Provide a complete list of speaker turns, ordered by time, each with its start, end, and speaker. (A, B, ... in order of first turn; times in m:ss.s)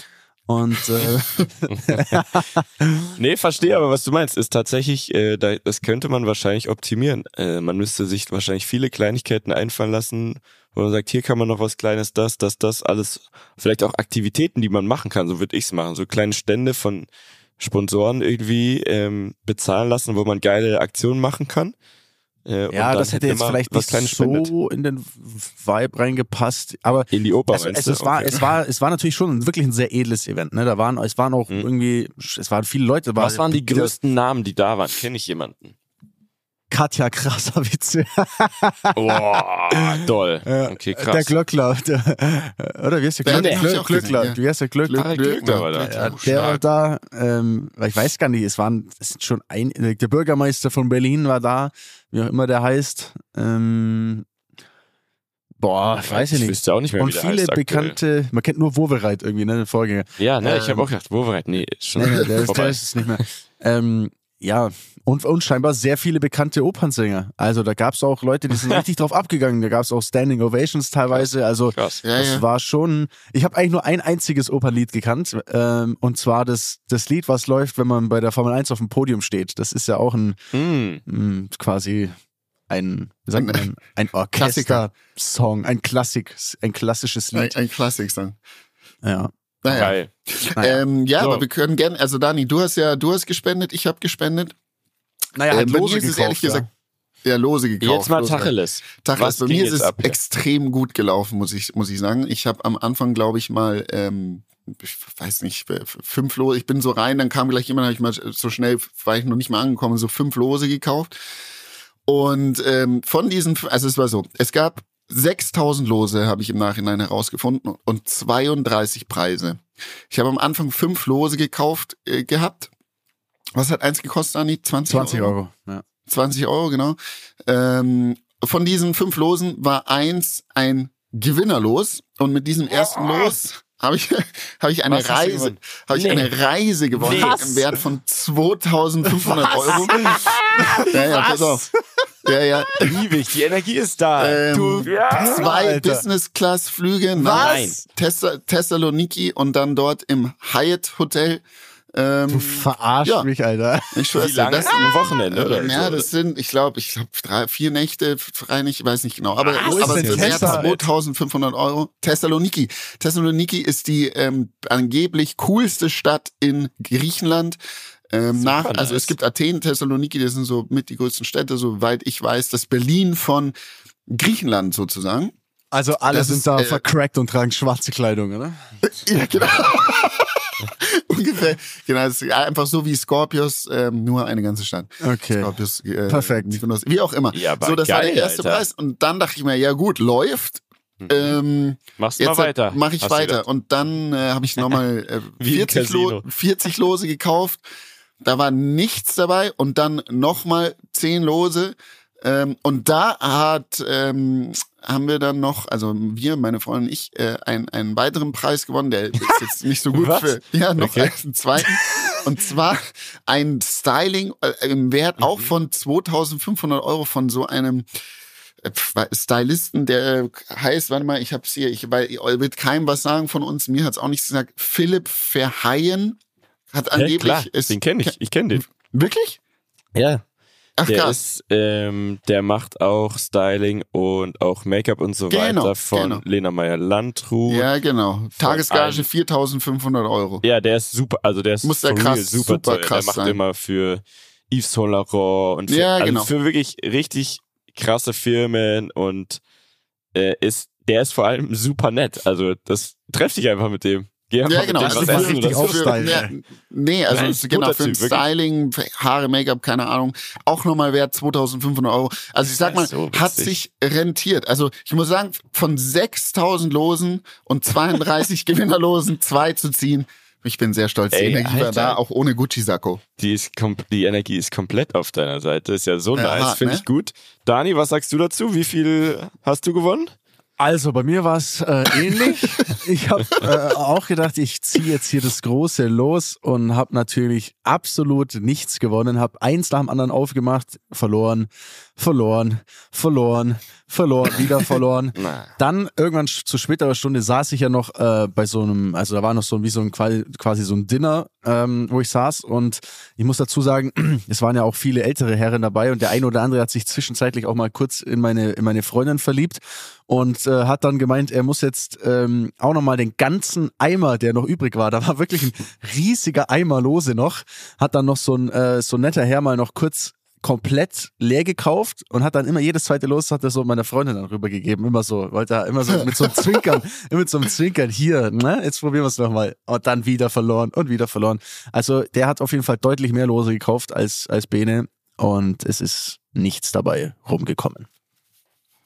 0:00.5-0:02.9 A
0:01.7-0:02.1 B
0:03.2-0:21.7 B
0:22.4-0:24.5 B
0:22.7-0:33.9 A
0:27.1-0:28.4 B
0:33.2-0:35.7 B
0:36.7-0:39.2 A
0:38.9-0:41.3 B
0:39.7-0:54.2 A
0:43.2-0:46.6 C
0:43.3-0:43.6 B
0:44.9-0:46.6 B
0:55.6-1:00.1 A
0:56.0-0:58.0 B
1:00.2-1:03.2 B
1:00.4-1:00.9 C
1:02.0-1:20.4 A
1:11.1-1:12.0 B
1:12.0-1:12.4 C
1:20.5-1:21.0 B
1:21.0-1:22.1 A
1:22.7-1:27.5 A
1:23.4-1:23.6 C
1:24.4-1:24.8 C
1:27.3-1:28.4 C
1:29.0-1:29.9 A
1:29.6-1:34.5 C
1:29.7-1:30.1 B
1:30.6-1:30.8 A
1:31.2-1:31.4 B
1:35.4-1:36.7 A
1:35.5-1:36.6 C
1:37.2-1:51.1 C
1:37.8-1:40.2 B
1:52.1-2:02.7 C
2:03.5-2:05.4 C
2:04.9-2:05.8 A
2:06.1-2:20.1 C
2:14.9-2:16.3 B
2:17.0-2:17.5 B
2:17.0-2:17.6 A
2:19.2-2:21.7 A
2:19.7-2:20.9 B
2:20.8-2:21.7 C
2:22.2-2:22.9 C
2:22.8-2:25.5 B
2:24.2-2:31.4 C
2:24.8-2:26.0 A
2:27.2-2:27.7 A
2:27.3-2:27.8 B
2:31.9-2:33.3 C
2:32.3-2:34.2 A
2:33.9-2:47.6 C
2:34.2-2:36.1 B
2:39.4-2:40.8 B
2:39.6-2:40.7 A
2:48.1-2:53.5 C
2:48.3-2:49.1 B
2:54.1-2:55.3 C
2:55.7-2:58.6 A
2:56.0-2:56.8 C
2:58.8-3:17.6 C
3:05.0-3:05.5 A
3:06.1-3:06.6 A
3:07.3-3:08.6 B
3:11.0-3:11.4 B
3:12.0-3:13.4 B
3:15.4-3:16.2 B
3:18.2-3:37.9 C
3:29.9-3:31.1 B
3:35.2-3:35.5 B
3:38.6-3:46.2 C
3:46.7-3:48.1 C
3:46.9-3:48.6 B
3:48.7-3:49.4 C
3:50.0-3:50.2 B
3:50.8-3:51.2 C
3:50.8-3:57.7 B
3:55.3-3:56.2 C
3:57.5-4:00.4 C
3:58.4-3:59.1 B
4:00.4-4:09.4 B
4:01.6-4:03.4 C
4:05.7-4:06.3 C
4:10.1-4:16.2 B
4:14.4-4:33.0 C
4:14.8-4:16.3 A
4:17.1-4:18.2 B
4:22.5-4:23.6 B
4:31.1-4:32.0 B
4:33.2-4:40.1 B
4:36.1-4:36.8 C
4:40.6-5:37.9 A
4:55.2-4:55.5 B